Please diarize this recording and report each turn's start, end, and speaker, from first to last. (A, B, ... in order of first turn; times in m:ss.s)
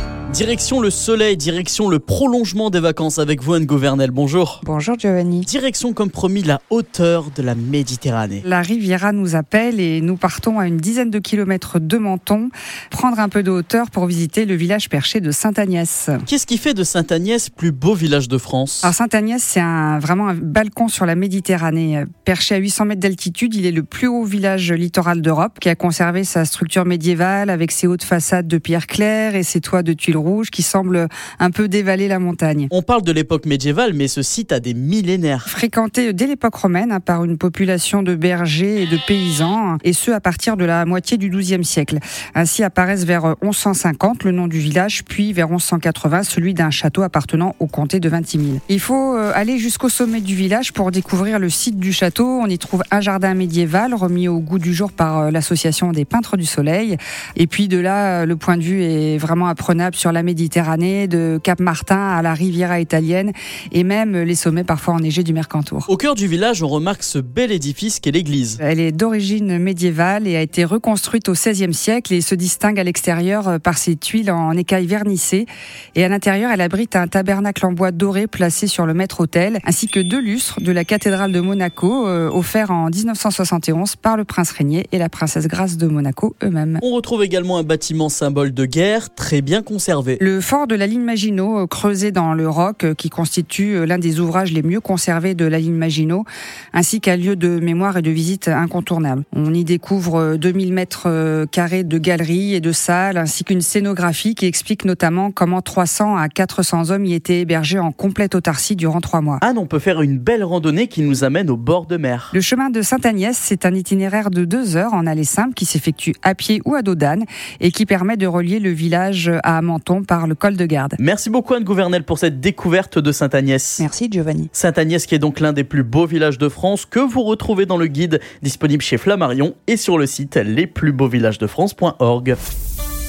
0:00.3-0:04.6 A
0:04.6-0:05.5 B
0:05.4-0:08.4 A
0:08.4-0:16.2 B
0:16.2-0:18.9 A
0:18.8-0:32.7 B
0:32.7-0:35.5 A
0:35.5-1:05.9 B
1:05.9-1:08.6 A
1:08.6-1:26.8 B
1:26.8-1:30.2 A
1:30.2-1:49.4 B
1:49.4-1:52.3 A
1:52.3-2:01.0 B
2:01.0-2:03.9 A
2:03.8-2:04.5 B
2:04.5-2:12.4 A